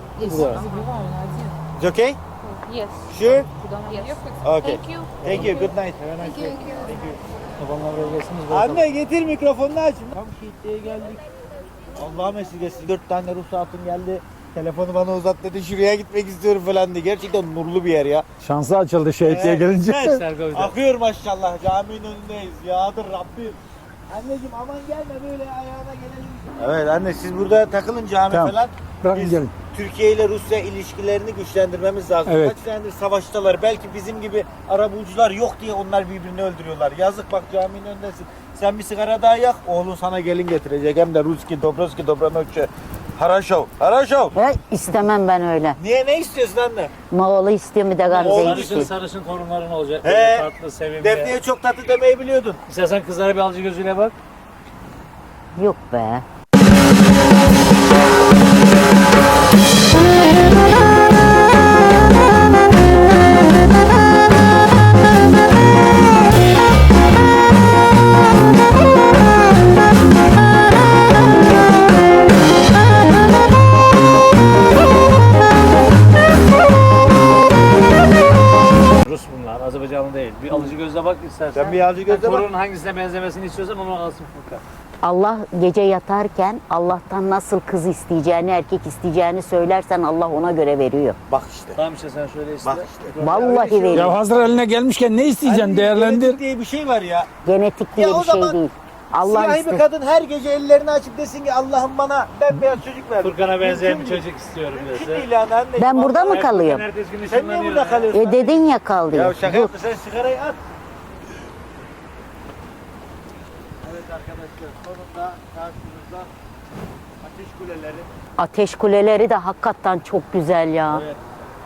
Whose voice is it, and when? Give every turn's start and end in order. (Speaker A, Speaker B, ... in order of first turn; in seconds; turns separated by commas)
Speaker A: 0.2-1.5, Speaker B: 0.2-0.7, Speaker C: 1.8-2.2, Speaker A: 2.4-7.0, Speaker C: 3.1-3.5, Speaker C: 4.4-6.1, Speaker B: 5.2-6.5, Speaker C: 6.8-7.2, Speaker B: 7.6-8.8, Speaker C: 8.5-11.2, Speaker C: 11.9-18.2, Speaker D: 18.4-20.1, Speaker C: 19.2-23.6, Speaker B: 20.0-20.8, Speaker C: 24.1-44.3, Speaker D: 28.3-29.5, Speaker D: 32.2-32.6, Speaker E: 44.3-45.8, Speaker C: 45.8-46.9, Speaker E: 47.1-48.9, Speaker B: 48.1-51.3, Speaker C: 48.1-48.9, Speaker C: 50.0-50.5, Speaker C: 51.0-52.6, Speaker B: 52.7-54.1, Speaker E: 55.5-56.2, Speaker B: 79.0-84.6, Speaker C: 81.5-82.5, Speaker E: 85.0-91.2, Speaker C: 91.3-91.8, Speaker B: 91.7-93.9, Speaker C: 92.6-94.2, Speaker E: 93.2-94.1, Speaker D: 93.9-96.4, Speaker C: 95.4-97.3, Speaker E: 97.4-99.8, Speaker C: 98.0-98.6, Speaker C: 99.2-106.5, Speaker B: 103.2-105.3, Speaker E: 105.8-106.9, Speaker B: 106.3-108.2, Speaker C: 107.3-110.6, Speaker E: 108.1-109.7, Speaker C: 113.8-116.3, Speaker C: 117.2-118.1, Speaker E: 118.4-121.0, Speaker C: 120.9-121.2